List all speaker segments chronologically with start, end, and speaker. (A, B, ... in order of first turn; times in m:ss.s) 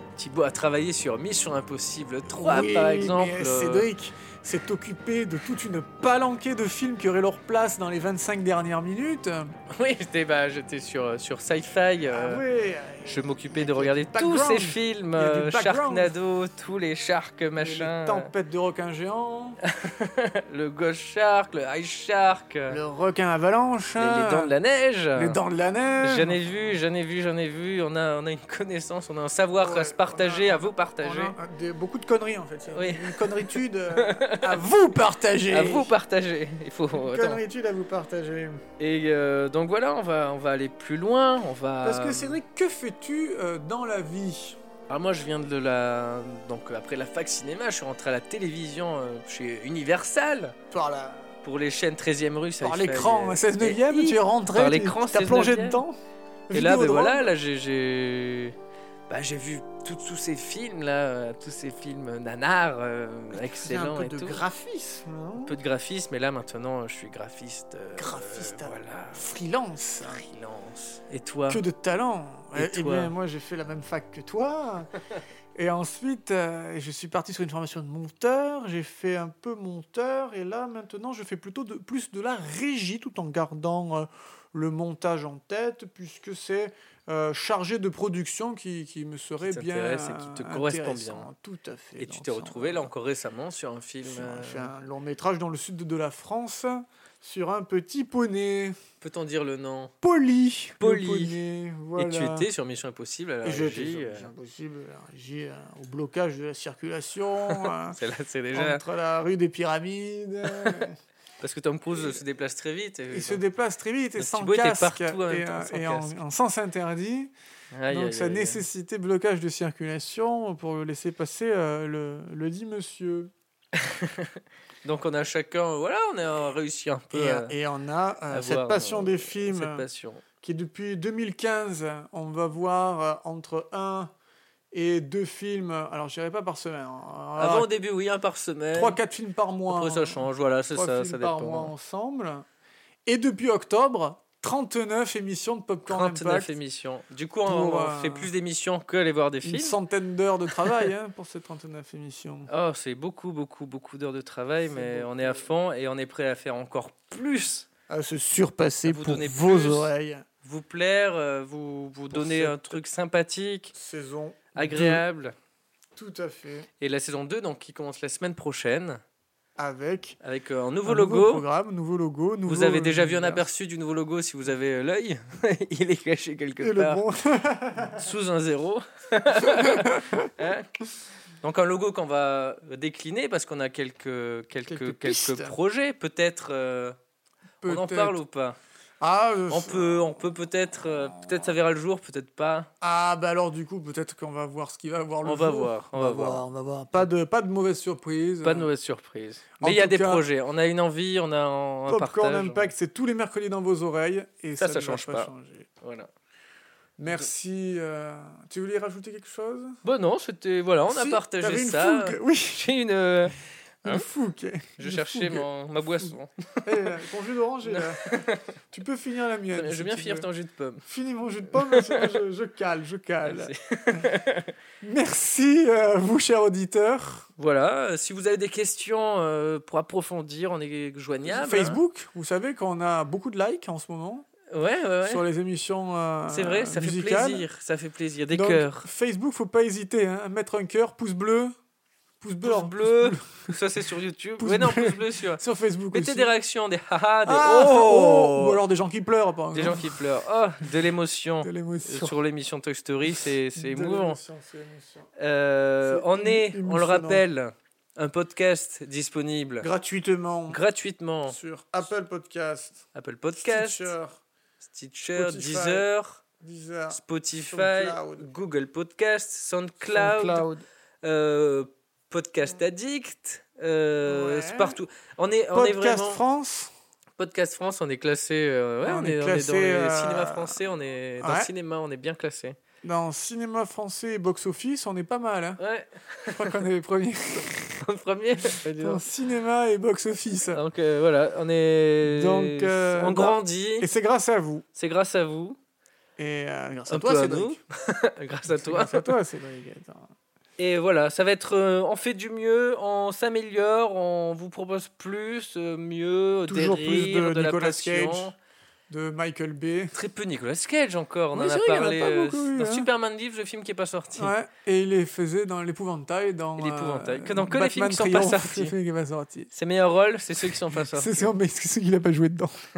0:00.2-0:03.9 A
0:02.3-0:09.5 B
0:09.7-0:12.4 A
0:12.1-0:16.2 B
0:13.0-0:18.3 A
0:17.6-0:19.6 B
0:19.7-0:22.8 A
0:22.7-0:24.5 B
0:24.0-0:25.4 A
0:25.2-0:26.4 B
0:26.0-0:31.4 A
0:29.6-0:36.0 B
0:32.7-0:34.6 A
0:35.5-0:37.4 A
0:36.9-0:38.6 B
0:38.8-0:42.4 A
0:41.8-0:44.6 B
0:44.9-0:50.6 A
0:50.7-0:51.3 B
0:51.4-0:55.8 A
0:52.6-0:56.0 B
0:56.5-0:57.3 B
0:56.5-0:58.6 A
0:59.1-1:04.5 A
1:03.3-1:05.6 B
1:05.4-1:09.3 A
1:08.0-1:10.3 B
1:10.0-1:11.6 A
1:11.5-1:14.9 B
1:12.5-1:13.1 A
1:15.6-1:32.9 B
1:29.4-1:31.3 A
1:32.0-1:34.7 A
1:34.0-1:38.8 B
1:39.0-1:39.9 A
1:40.0-1:42.5 B
1:40.8-1:41.4 A
1:42.0-1:44.3 A
1:43.4-1:48.0 B
1:47.5-1:48.8 A
1:48.5-1:51.0 B
1:50.5-1:50.9 A
1:51.4-1:53.4 A
1:51.9-1:52.2 B
1:53.1-1:57.3 B
1:54.2-1:56.2 A
1:57.7-1:58.7 A
1:57.9-2:03.3 B
2:03.8-2:04.3 A
2:04.8-2:07.6 A
2:07.1-2:09.8 B
2:08.3-2:10.2 A
2:10.4-2:14.1 B
2:14.7-2:17.7 B
2:17.4-2:19.0 A
2:18.7-2:22.4 B
2:19.7-2:21.7 A
2:23.1-2:26.6 B
2:25.9-2:29.8 A
2:27.4-2:28.3 B
2:29.4-2:32.5 B
2:32.5-2:37.7 A
2:34.6-2:35.5 B
2:37.9-2:40.2 B
2:38.9-2:39.9 A
2:40.4-2:43.7 A
2:42.1-2:42.8 B
2:43.7-2:45.0 B
2:44.6-2:45.3 A
2:46.0-2:46.7 B
2:46.8-2:49.0 A
2:49.6-2:50.2 B
2:50.2-2:51.5 A
2:50.8-2:53.5 B
2:52.5-2:57.0 A
2:56.6-2:58.0 B
2:57.9-3:00.7 A
2:59.4-3:00.3 B
3:01.4-3:07.0 A
3:04.6-3:05.6 B
3:07.6-3:08.2 B
3:07.6-3:08.6 A
3:09.0-3:11.6 B
3:09.5-3:12.7 A
3:12.8-3:18.7 B
3:15.2-3:16.4 A
3:18.4-3:22.7 A
3:19.6-3:20.3 B
3:21.9-3:25.7 B
3:24.6-3:25.3 A
3:25.8-3:26.1 A
3:27.0-3:29.8 B
3:29.8-3:34.1 A
3:30.9-3:32.7 B
3:33.8-3:38.1 B
3:34.8-3:37.0 A
3:37.6-3:38.4 A
3:38.7-3:40.3 B
3:39.5-3:40.8 A
3:40.9-3:44.1 B
3:41.6-3:42.2 A
3:43.2-3:44.5 A
3:44.8-3:47.3 B
3:47.4-3:51.8 A
3:51.2-3:54.3 B
3:54.5-3:55.2 A
3:55.0-3:57.5 B
3:56.3-3:58.9 A
3:58.3-4:01.5 B
4:02.2-4:03.5 B
4:02.4-4:08.6 A
4:04.4-4:06.4 B
4:07.3-4:10.0 B
4:09.5-4:14.2 A
4:11.4-4:12.2 B
4:13.1-4:15.1 B
4:15.2-4:19.7 A
4:15.9-4:17.2 B
4:19.6-4:20.6 B
4:20.5-4:21.4 A
4:21.3-4:24.2 B
4:22.9-4:23.9 A
4:24.6-4:26.2 A
4:25.1-4:25.9 B
4:26.4-4:28.4 B
4:26.9-4:30.5 A
4:29.8-4:30.6 B
4:31.0-4:36.2 A
4:34.0-4:34.8 B
4:35.5-4:36.7 B
4:37.2-4:42.6 A
4:38.8-4:40.6 B
4:41.2-4:41.5 B
4:42.8-4:45.6 B
4:45.6-4:46.6 A
4:46.3-4:47.8 B
4:47.8-4:49.0 A
4:48.5-4:50.6 B
4:50.5-4:53.9 A
4:52.0-4:54.6 B
4:54.7-4:55.6 A
4:56.2-4:57.6 B
4:56.9-4:59.2 A
4:58.5-5:00.1 B
5:00.6-5:08.3 A
5:06.5-5:08.3 B
5:08.9-5:10.0 B
5:09.9-5:14.3 A
5:11.3-5:12.9 B
5:14.2-5:19.5 B
5:16.6-5:18.8 A
5:19.5-5:21.4 A
5:20.4-5:22.6 B